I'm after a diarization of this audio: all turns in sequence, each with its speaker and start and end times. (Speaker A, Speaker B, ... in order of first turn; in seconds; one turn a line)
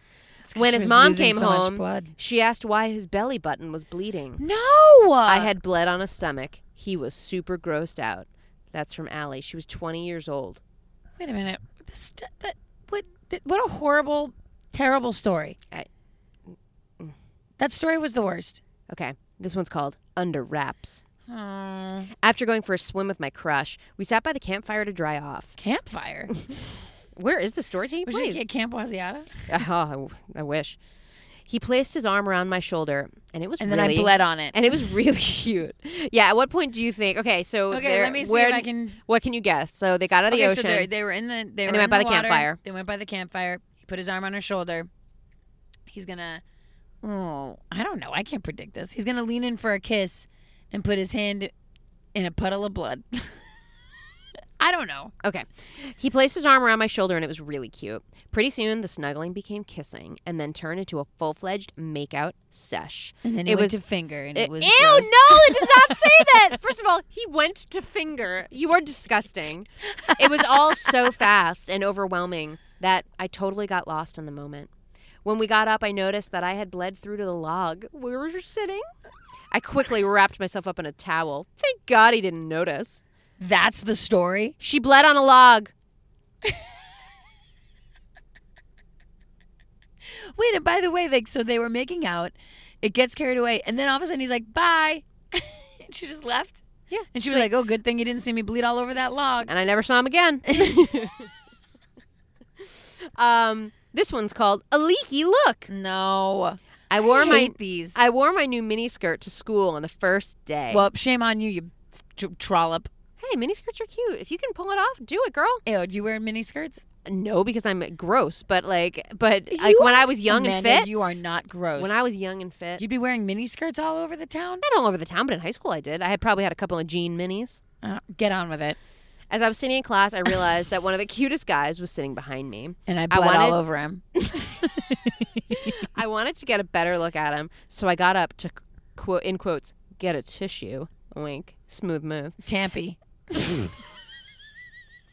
Speaker A: 0.4-2.1
Speaker B: 0.5-4.4
Speaker A: 4.4-5.5
Speaker B: 5.2-10.6
Speaker A: 11.2-15.6
Speaker A: 17.6-18.6
Speaker B: 18.9-21.0
Speaker A: 21.3-22.1
Speaker B: 22.2-25.6
Speaker A: 25.6-26.3
Speaker B: 27.1-28.4
Speaker A: 28.1-29.5
Speaker B: 29.5-30.8
Speaker B: 31.5-40.9
Speaker A: 33.6-34.7
Speaker A: 37.7-39.0
Speaker A: 40.3-44.9
Speaker B: 41.6-42.6
Speaker A: 45.9-46.4
Speaker A: 47.0-51.5
Speaker A: 52.1-53.4
Speaker A: 54.6-55.1
Speaker B: 55.2-63.8
Speaker A: 63.2-66.3
Speaker B: 64.3-74.7
Speaker B: 75.2-78.8
Speaker B: 79.5-83.0
Speaker A: 83.4-84.5
Speaker B: 84.6-85.7
Speaker A: 90.0-99.5
Speaker B: 96.9-98.1
Speaker B: 99.5-101.3
Speaker B: 103.2-105.7
Speaker A: 105.7-108.0
Speaker B: 106.9-110.9
Speaker A: 110.7-112.9
Speaker B: 113.2-115.6
Speaker A: 115.7-116.8
Speaker B: 117.0-120.9
Speaker A: 119.5-122.0
Speaker B: 121.8-122.8
Speaker A: 122.8-124.6
Speaker B: 124.6-127.6
Speaker A: 127.8-128.8
Speaker B: 129.3-133.6
Speaker A: 132.9-135.8
Speaker B: 135.5-142.4
Speaker A: 142.4-143.7